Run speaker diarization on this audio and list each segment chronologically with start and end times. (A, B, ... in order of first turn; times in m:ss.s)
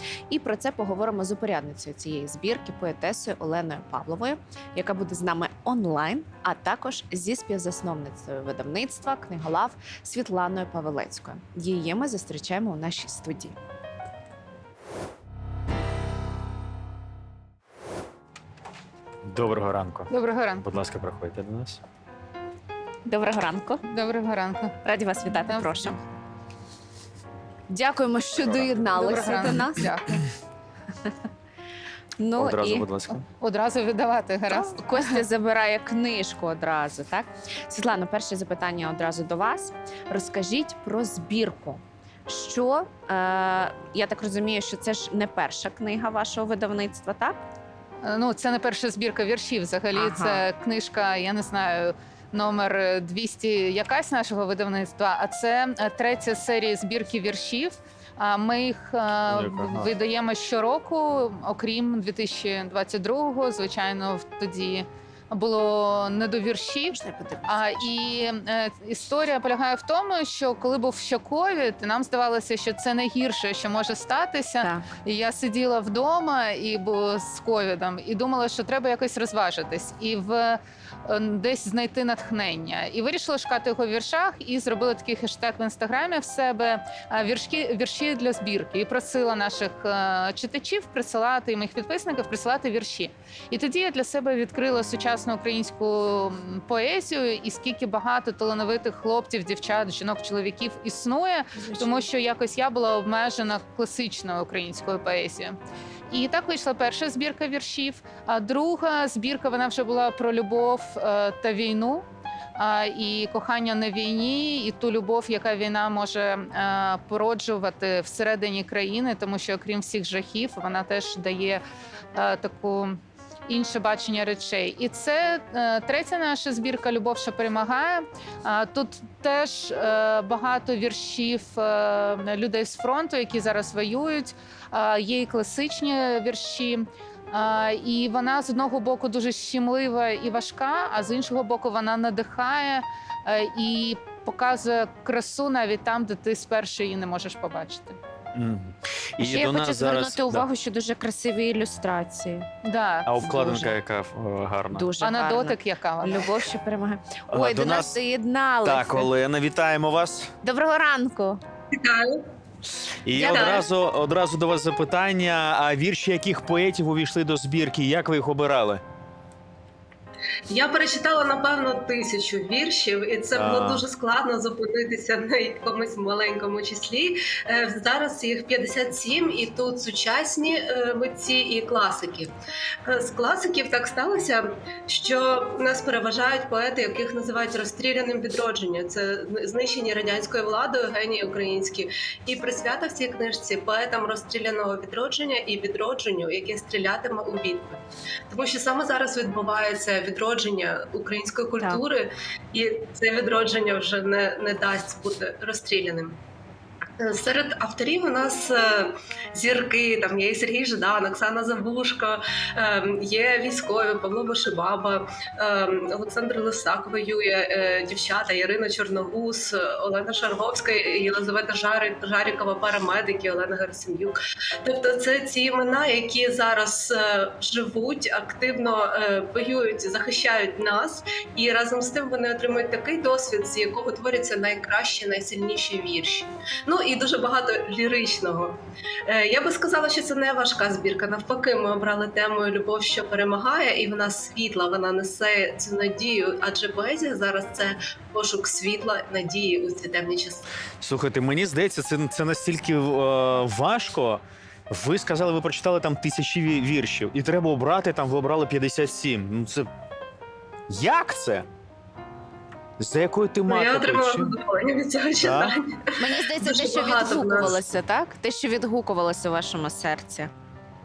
0:00.3-0:13.6 A
0:19.3-0:20.1 B
0:20.1-0:20.6 C
0:20.6-0:21.8 B
0:23.1-0:23.8 A
0:23.9-0:24.8 C
0:24.8-0:26.0 A
0:25.3-0:26.0 C
0:27.7-0:30.1 A
0:28.4-0:28.9 B
0:29.0-0:30.2 C
0:32.2-0:32.9 A
0:32.4-0:33.3 B
0:33.4-0:35.2 C
0:34.5-0:47.4 A
0:48.0-1:45.6 C
0:49.9-0:50.4 A
0:59.3-0:59.9 B
1:06.9-1:07.7 A
1:41.6-1:42.0 A
1:46.1-1:52.0 C
1:52.6-2:01.6 C
2:02.1-2:28.0 C
2:28.3-2:30.5 B
2:29.2-2:32.5 A
2:32.6-2:33.1 C
2:33.1-2:34.9 B
2:33.2-2:33.7 A
2:34.7-2:39.1 A
2:35.0-2:36.3 C
2:37.3-2:38.0 B
2:38.6-2:40.3 B
2:40.4-2:41.4 A
2:41.8-2:42.2 D
2:43.1-2:48.8 B
2:43.1-2:43.7 D
2:50.5-3:02.3 D
2:53.3-2:53.8 B
3:02.9-3:26.2 D
3:27.0-4:10.5 D
4:10.8-4:19.7 B
4:20.7-4:21.5 B
4:22.8-4:24.3 B
4:23.5-4:27.7 D
4:25.2-4:25.5 B
4:26.0-4:30.3 A